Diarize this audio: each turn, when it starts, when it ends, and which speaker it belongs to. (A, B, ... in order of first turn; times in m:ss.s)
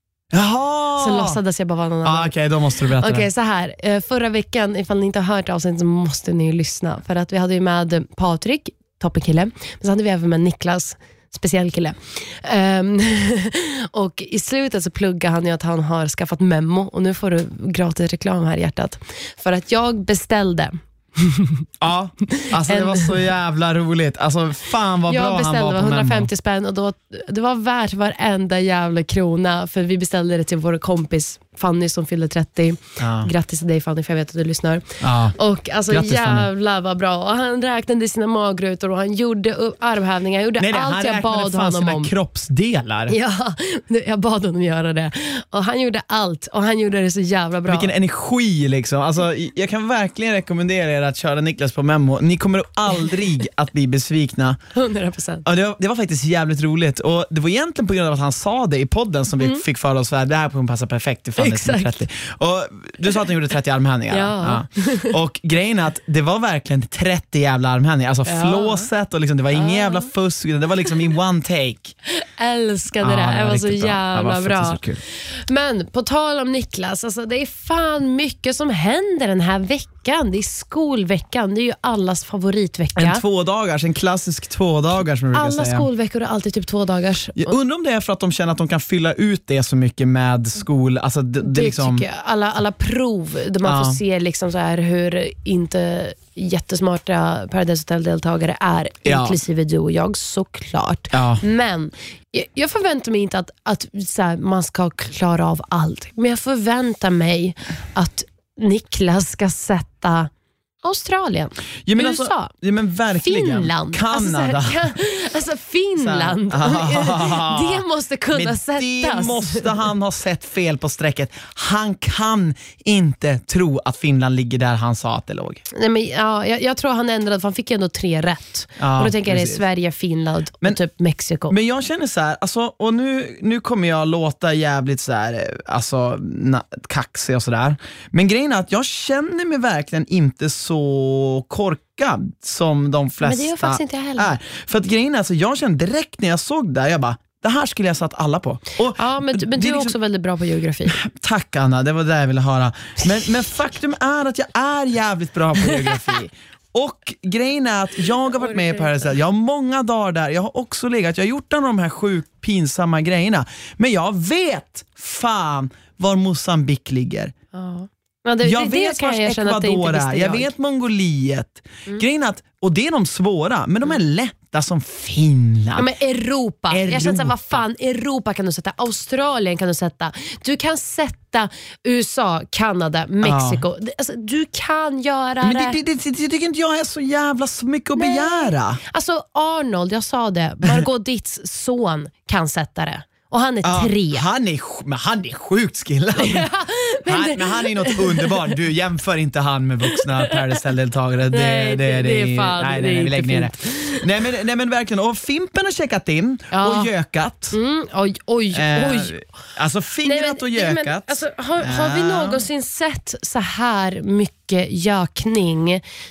0:00.3-0:01.4 A
0:01.0-0:02.3 B
0:02.0-0:03.3 A
0:03.0-0:21.6 B
0:21.8-0:26.3 A
0:22.4-0:23.1 B
0:25.1-0:42.1 B
0:33.0-0:33.3 A
0:35.0-0:35.4 A
0:35.9-0:36.5 A
0:40.6-0:43.2 A
0:43.1-0:47.9 B
0:47.7-0:54.6 A
0:54.8-0:55.4 B
0:55.4-1:12.0 A
1:01.4-1:02.0 B
1:04.1-1:05.2 B
1:08.3-1:08.9 B
1:09.5-1:10.1 B
1:12.1-1:23.2 B
1:13.0-1:15.0 A
1:23.0-1:25.9 A
1:25.3-1:27.6 B
1:27.4-1:32.0 A
1:31.4-1:50.3 B
1:33.6-1:34.0 A
1:39.0-1:39.4 A
1:41.1-1:41.4 A
1:50.8-1:52.5 B
1:51.9-1:55.0 A
1:53.2-1:59.8 B
1:56.0-2:05.6 A
2:05.7-2:11.6 B
2:08.8-2:09.6 A
2:11.5-2:30.0 A
2:23.2-2:24.3 B
2:29.0-2:31.0 B
2:30.9-2:47.3 A
2:38.4-2:38.9 B
2:47.5-2:50.5 B
2:48.4-2:55.9 A
2:55.8-3:05.8 B
2:56.7-2:57.6 A
3:03.2-3:03.6 A
3:05.4-3:08.8 A
3:08.0-3:14.2 B
3:13.6-3:16.5 A
3:16.2-3:18.5 B
3:17.1-3:27.6 A
3:19.9-3:20.4 B
3:21.3-3:24.1 B
3:26.5-3:26.9 B
3:27.5-3:29.2 B
3:28.5-3:32.4 A
3:30.0-3:35.8 B